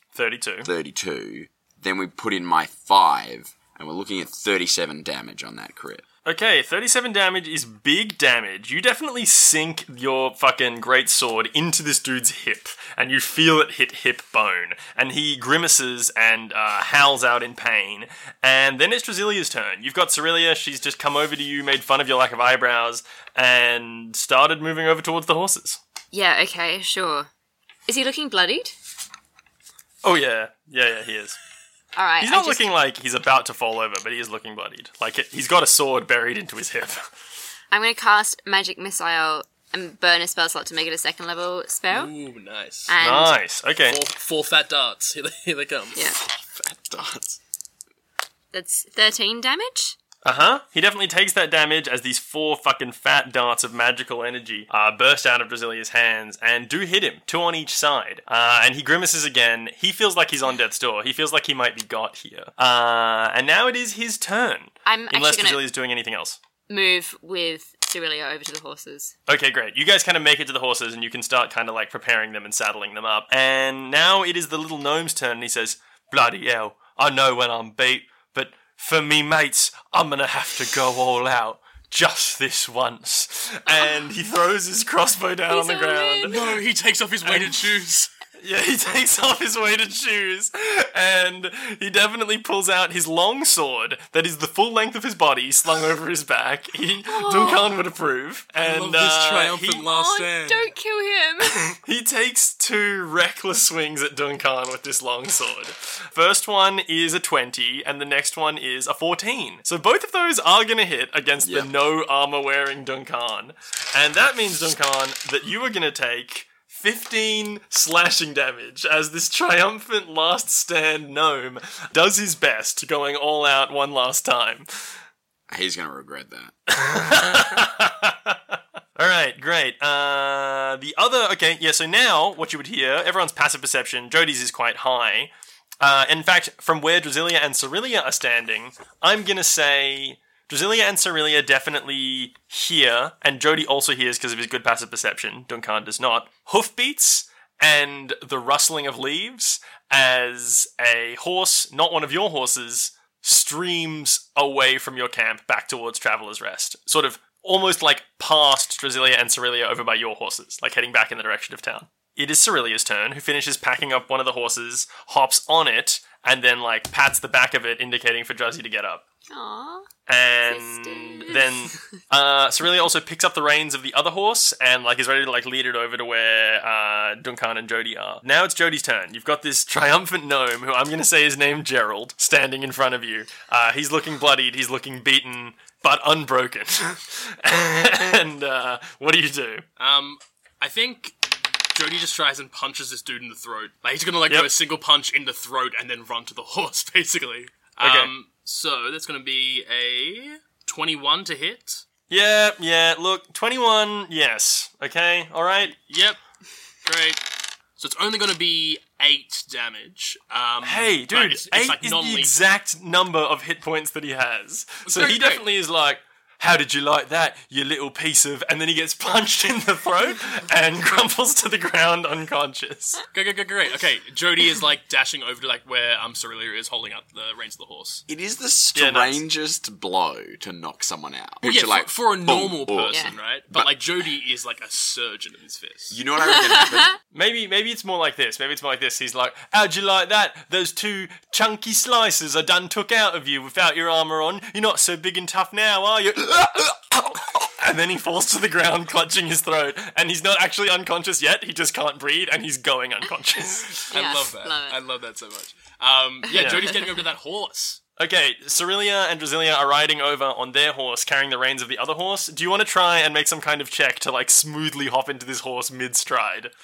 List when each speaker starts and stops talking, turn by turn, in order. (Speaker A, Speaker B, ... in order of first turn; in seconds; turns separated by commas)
Speaker A: 0.1-0.7, Speaker B: 0.6-6.0, Speaker A: 6.2-25.8, Speaker C: 26.1-27.3, Speaker C: 27.9-28.7, Speaker A: 30.0-31.4, Speaker C: 31.9-32.6, Speaker A: 32.2-37.1, Speaker C: 37.7-42.1, Speaker D: 41.9-42.9, Speaker C: 42.9-43.4, Speaker A: 43.0-44.0, Speaker D: 43.9-46.0, Speaker B: 46.4-47.4, Speaker C: 48.5-50.0, Speaker A: 50.2-66.4, Speaker C: 64.8-65.6, Speaker C: 66.7-69.1, Speaker A: 69.3-86.5, Speaker C: 85.5-86.4, Speaker D: 86.3-88.1, Speaker A: 87.2-87.7, Speaker A: 88.4-99.8, Speaker C: 97.0-97.8, Speaker D: 98.6-100.7, Speaker C: 99.8-101.7, Speaker A: 101.8-124.9, Speaker B: 111.4-111.7, Speaker B: 125.5-126.5, Speaker A: 126.7-169.0, Speaker C: 169.3-169.8, Speaker A: 170.1-189.6, Speaker C: 170.4-171.5, Speaker D: 189.8-191.2, Speaker D: 191.7-201.8, Speaker A: 197.8-198.1, Speaker A: 202.1-205.7, Speaker D: 205.7-206.2, Speaker D: 206.8-212.3, Speaker A: 210.6-223.0, Speaker D: 214.8-215.5, Speaker D: 223.1-228.0, Speaker B: 228.1-233.7, Speaker A: 228.7-229.2, Speaker D: 231.4-236.0, Speaker B: 235.9-236.9, Speaker C: 236.3-236.9, Speaker A: 237.1-253.9, Speaker C: 253.9-254.8, Speaker D: 253.9-257.8, Speaker C: 256.3-256.9, Speaker A: 256.3-256.7, Speaker A: 258.0-266.5